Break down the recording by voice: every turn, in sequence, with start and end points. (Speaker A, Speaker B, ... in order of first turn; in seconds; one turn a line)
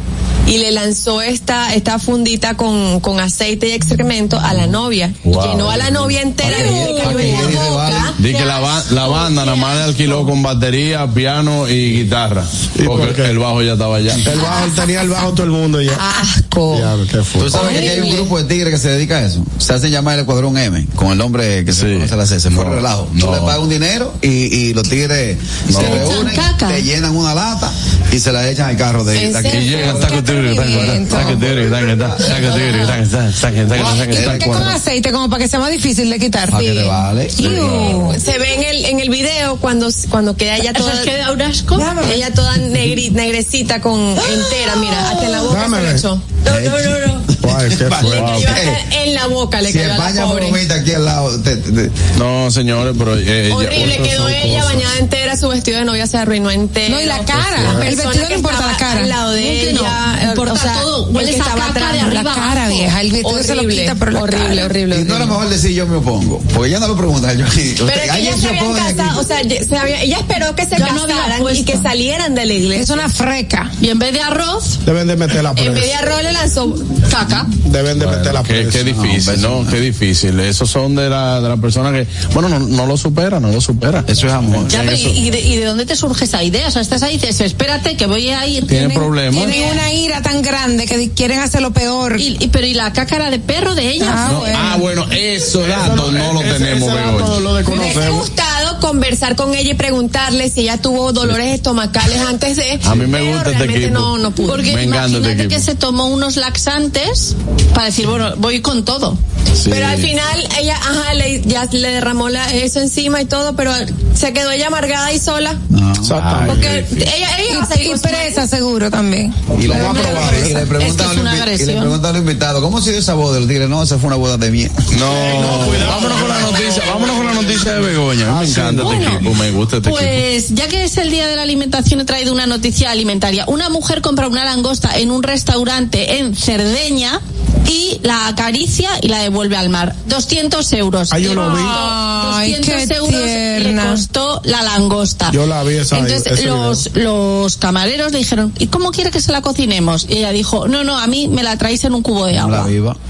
Speaker A: 0.5-9.8
Speaker B: 5.2-7.4
Speaker C: 6.4-8.1
Speaker B: 8.2-14.3
Speaker D: 12.8-13.3
Speaker D: 14.2-16.0
Speaker A: 14.4-14.7
Speaker A: 16.0-16.9
Speaker D: 16.7-17.9
Speaker C: 17.4-30.1
Speaker A: 17.6-18.3
Speaker B: 21.7-23.6
Speaker B: 25.7-26.2
Speaker E: 25.8-26.8
Speaker F: 29.1-31.4
Speaker B: 29.3-34.7
Speaker C: 32.2-32.6
Speaker C: 33.7-34.7
Speaker F: 33.8-38.2
Speaker C: 36.5-38.0
Speaker B: 37.5-37.9
Speaker A: 37.9-41.1
Speaker E: 40.7-42.2
Speaker A: 41.8-47.2
Speaker E: 44.2-45.6
Speaker D: 45.5-46.0
Speaker C: 46.5-48.8
Speaker D: 47.4-48.5
Speaker B: 48.0-48.5
Speaker A: 48.0-50.6
Speaker C: 49.6-52.0
Speaker B: 52.2-54.4
Speaker A: 53.5-62.4
Speaker D: 53.7-54.8
Speaker F: 56.9-59.1
Speaker D: 57.5-57.9
Speaker E: 59.3-62.9
Speaker F: 62.0-64.7
Speaker A: 63.2-65.4
Speaker C: 64.9-69.2
Speaker A: 67.9-73.0
Speaker E: 70.7-71.9
Speaker F: 72.7-73.7
Speaker E: 73.8-74.8
Speaker D: 74.8-75.9
Speaker A: 75.5-77.4
Speaker E: 77.2-77.5
Speaker D: 77.6-79.0
Speaker B: 78.0-85.2
Speaker C: 78.9-79.8
Speaker C: 84.1-84.8
Speaker E: 84.7-89.8
Speaker B: 88.7-89.5
Speaker F: 88.7-92.2
Speaker E: 92.2-94.8
Speaker F: 94.0-94.8
Speaker B: 94.2-97.4
Speaker D: 95.6-98.3
Speaker A: 97.7-104.7
Speaker B: 102.8-104.1
Speaker E: 104.5-109.2
Speaker B: 104.7-105.7
Speaker B: 109.6-110.1
Speaker A: 109.7-115.6
Speaker C: 115.7-116.1
Speaker D: 116.0-116.6
Speaker B: 116.1-116.9
Speaker A: 116.5-118.4
Speaker F: 117.5-120.7
Speaker C: 119.5-124.8
Speaker E: 119.9-122.0
Speaker B: 124.9-130.2
Speaker D: 125.0-127.9
Speaker E: 128.6-129.2
Speaker E: 129.8-145.4
Speaker D: 141.1-141.8
Speaker F: 141.3-144.0
Speaker D: 145.3-146.8
Speaker E: 145.9-152.7
Speaker C: 152.3-153.0